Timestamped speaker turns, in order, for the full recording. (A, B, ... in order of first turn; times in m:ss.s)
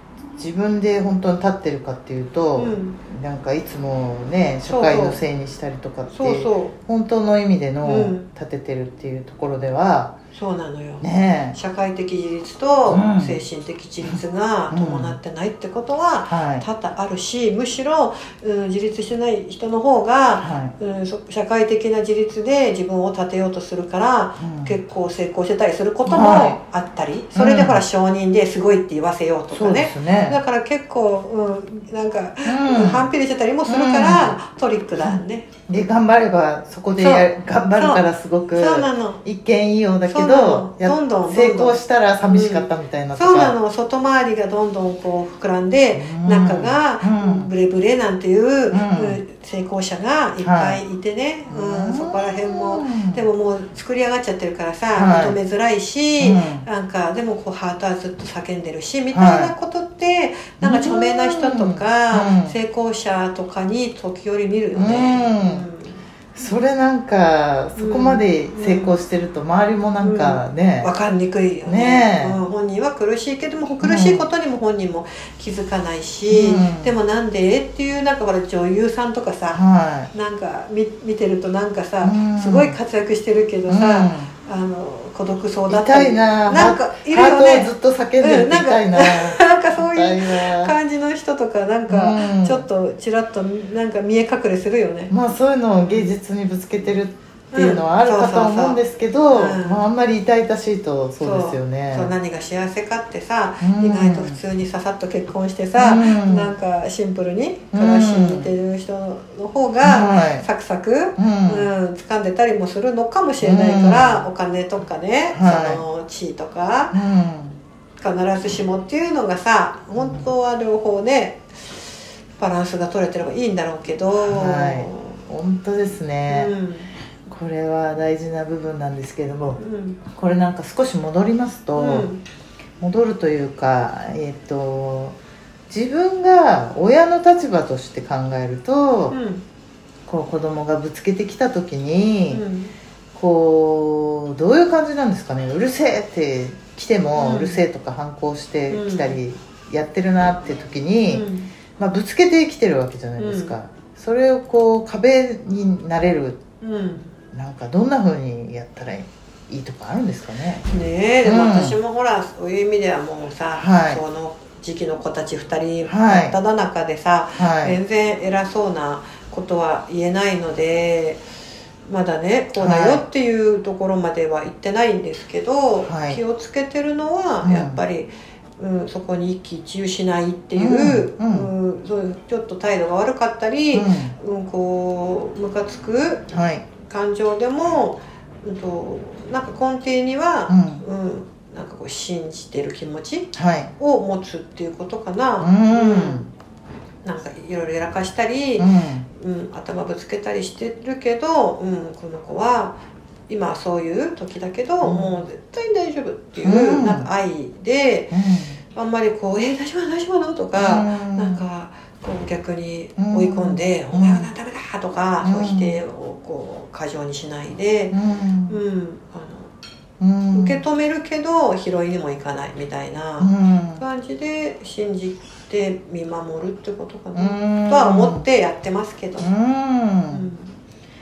0:00.4-0:10.2 A
0:02.6-0:03.0 B
0:04.6-0:05.2 B
0:06.1-0:06.7 B
0:07.8-0:08.3 B
0:10.3-0:35.5 B
0:11.0-0:11.6 A
0:12.9-0:13.4 A
0:14.7-0:15.2 A
0:16.3-0:16.6 A
0:20.4-0:20.7 A
0:24.4-0:24.7 A
0:26.0-0:26.6 A
0:27.3-0:27.8 A
0:29.5-0:30.4 A
0:32.4-0:33.1 A
0:33.6-0:34.4 A
0:35.0-0:43.5 A
0:37.0-0:39.2 B
0:40.1-1:06.6 B
0:45.9-0:47.5 A
0:48.7-0:49.2 A
0:50.4-0:50.8 A
0:51.5-0:53.2 A
0:54.9-0:55.4 A
0:56.2-0:56.6 A
0:59.1-0:59.5 A
1:00.6-1:02.6 A
1:04.7-1:05.6 A
1:06.3-1:10.9 A
1:07.8-1:09.0 B
1:10.0-1:19.6 B
1:11.6-1:12.4 A
1:13.8-1:14.2 A
1:16.3-1:16.9 A
1:19.5-1:20.1 A
1:20.1-1:35.1 B
1:22.0-1:22.8 A
1:23.7-1:24.3 A
1:25.7-1:30.8 A
1:31.9-1:32.6 A
1:35.1-1:42.1 A
1:35.8-1:36.1 B
1:37.5-1:39.8 B
1:41.2-1:57.0 B
1:43.6-1:44.4 A
1:45.8-1:46.5 A
1:47.7-1:48.5 A
1:49.8-1:50.4 A
1:51.2-1:51.7 A
1:53.4-1:54.3 A
1:55.3-1:55.8 A
1:56.9-1:57.6 A
1:58.0-2:01.8 B
2:00.0-2:00.3 A
2:02.4-2:05.2 B
2:04.2-2:06.5 A
2:06.3-2:06.9 B
2:07.2-2:12.1 A
2:09.6-2:10.0 B
2:11.7-2:12.2 B
2:12.8-2:15.2 A
2:15.7-2:19.1 A
2:19.1-2:19.4 B
2:20.1-2:22.4 A
2:22.3-2:22.7 B
2:23.1-2:36.4 A
2:27.2-2:27.6 B
2:28.7-2:29.2 B
2:31.1-2:31.5 B
2:33.2-2:33.6 B
2:36.6-2:37.1 B
2:37.3-2:40.7 A
2:40.7-2:51.2 B
2:41.2-2:41.8 A
2:43.5-2:44.0 A
2:45.8-2:46.4 A
2:47.3-2:47.8 A
2:51.8-3:06.2 B
2:52.6-2:53.0 A
2:55.8-2:56.2 A
2:57.4-2:57.8 A
3:00.6-3:01.5 A
3:03.7-3:04.2 A
3:06.3-3:06.6 A
3:06.8-3:16.3 B
3:10.5-3:10.8 A
3:13.3-3:13.7 A
3:15.4-3:16.3 A
3:17.0-3:28.2 B
3:18.6-3:19.1 A
3:24.8-3:25.2 A
3:26.4-3:27.1 A
3:28.1-3:28.6 A
3:28.7-3:38.0 B
3:30.5-3:31.4 A
3:33.0-3:34.3 A
3:35.2-3:35.8 A
3:37.9-3:38.6 A
3:38.5-3:39.5 B
3:40.0-3:40.6 A
3:40.3-3:49.3 B
3:43.2-3:43.8 A
3:47.1-3:48.2 A
3:49.2-3:50.3 A
3:50.1-3:50.5 B